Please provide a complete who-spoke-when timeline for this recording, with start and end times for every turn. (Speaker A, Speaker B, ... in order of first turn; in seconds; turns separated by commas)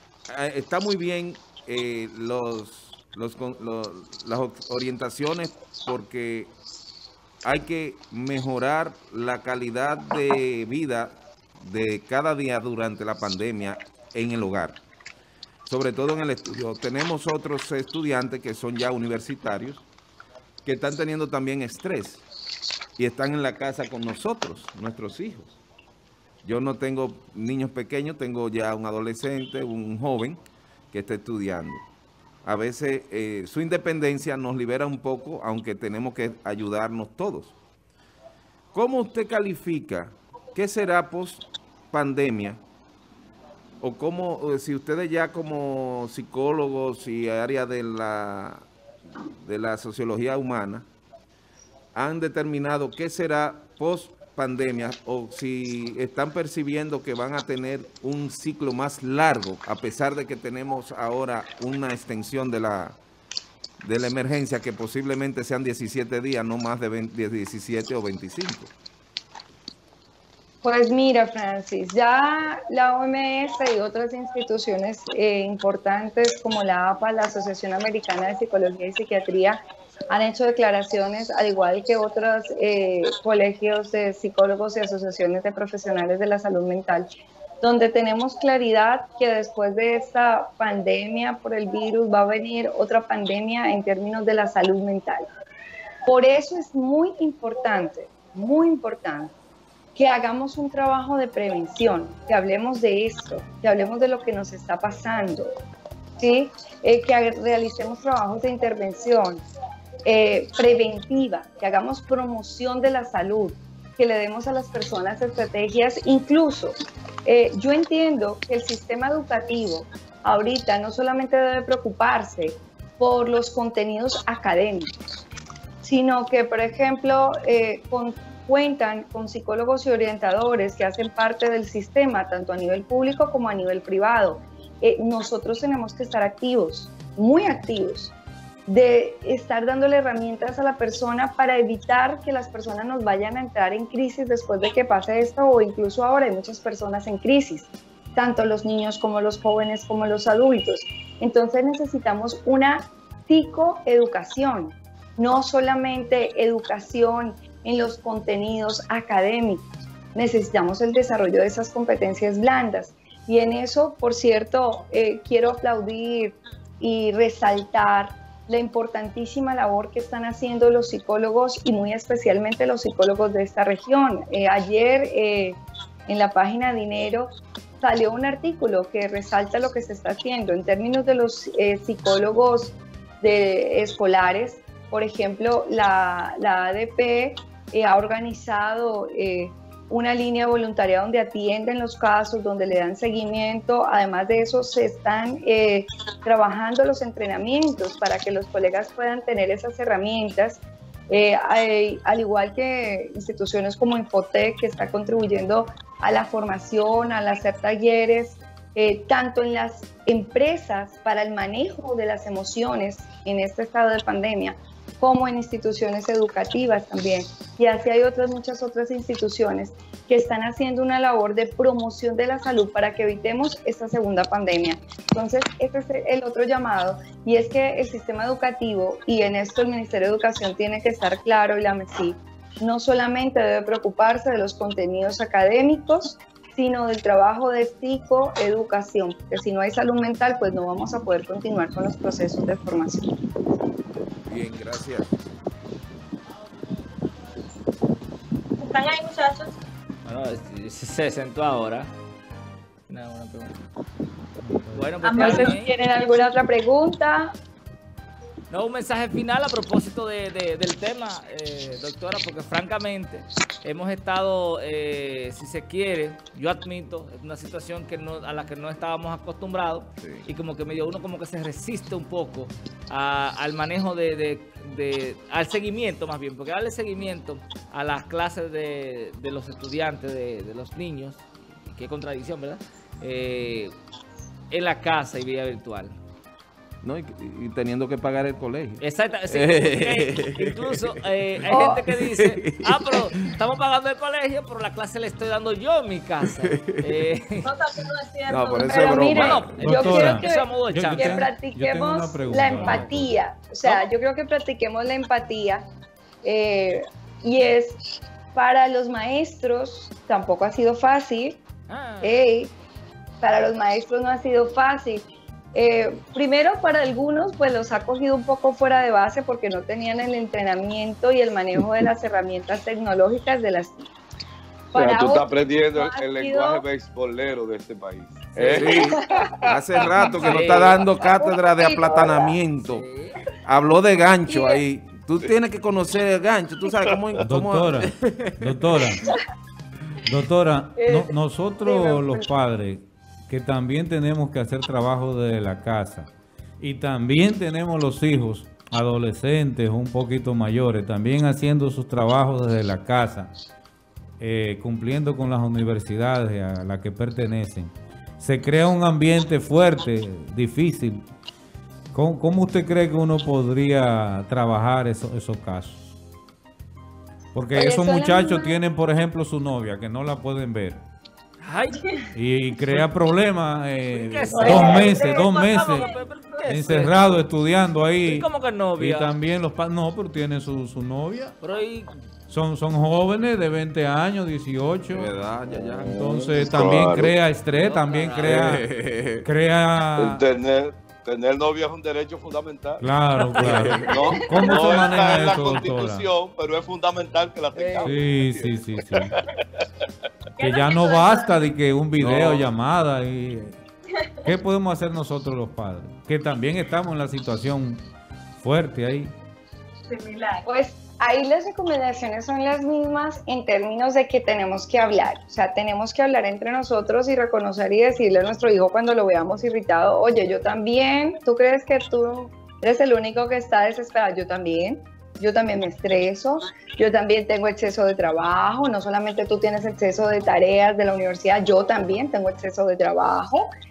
Speaker A: 0.3-6.5, Speaker A: 7.4-14.8, Speaker A: 15.7-19.9, Speaker A: 20.6-22.2, Speaker A: 23.0-25.6, Speaker A: 26.4-31.9, Speaker A: 32.4-37.5, Speaker A: 38.7-42.6, Speaker A: 43.8-48.7, Speaker A: 49.2-50.9, Speaker A: 52.0-63.0, Speaker A: 63.8-68.7, Speaker B: 70.6-87.1, Speaker B: 87.6-95.3, Speaker B: 96.1-99.3, Speaker B: 100.0-105.5, Speaker B: 106.2-109.4, Speaker B: 110.0-124.9, Speaker B: 125.8-138.1, Speaker B: 138.7-243.2, Speaker A: 244.2-245.2, Speaker C: 248.6-249.6, Speaker D: 250.1-251.9, Speaker D: 252.9-253.6, Speaker E: 254.4-255.0, Speaker D: 254.7-255.7, Speaker C: 255.0-255.6, Speaker B: 255.1-257.3, Speaker D: 258.5-283.8, Speaker A: 270.0-270.3, Speaker D: 284.5-286.0, Speaker A: 286.8-293.4, Speaker D: 288.8-297.5, Speaker B: 291.5-291.9, Speaker A: 296.2-297.1, Speaker C: 297.4-299.2, Speaker A: 298.3-299.6, Speaker B: 298.7-305.7, Speaker D: 299.1-301.3, Speaker E: 299.6-303.2, Speaker D: 302.4-303.1, Speaker B: 306.2-307.8, Speaker B: 308.4-311.4, Speaker D: 311.7-312.2, Speaker B: 312.0-312.5, Speaker B: 313.2-323.9, Speaker B: 324.7-326.6, Speaker F: 324.8-329.5, Speaker D: 328.4-328.7, Speaker A: 328.6-332.9, Speaker B: 330.0-332.4, Speaker D: 330.2-330.8, Speaker D: 332.6-333.2, Speaker A: 333.5-338.9, Speaker B: 334.3-334.6, Speaker E: 337.2-339.0, Speaker E: 340.0-353.3, Speaker B: 340.8-342.3, Speaker E: 354.2-361.1, Speaker E: 361.9-365.9, Speaker E: 367.3-370.8, Speaker B: 367.6-368.6, Speaker D: 371.4-372.0, Speaker E: 372.1-375.9, Speaker D: 373.9-377.2, Speaker B: 374.3-374.9, Speaker C: 374.4-376.5, Speaker E: 376.5-381.4, Speaker D: 378.1-379.1, Speaker D: 381.4-381.9, Speaker E: 382.3-385.1, Speaker A: 384.9-386.1, Speaker F: 385.6-387.2, Speaker E: 386.0-388.6, Speaker D: 387.5-388.5, Speaker A: 388.2-389.3, Speaker E: 389.2-390.2, Speaker F: 390.0-392.8, Speaker E: 392.8-396.1, Speaker F: 393.4-399.4, Speaker A: 393.4-394.0, Speaker D: 397.5-398.0, Speaker E: 397.8-399.1, Speaker C: 400.4-401.4, Speaker E: 400.4-403.6, Speaker F: 402.0-402.4, Speaker E: 404.2-409.1, Speaker C: 409.9-410.5, Speaker B: 410.5-433.5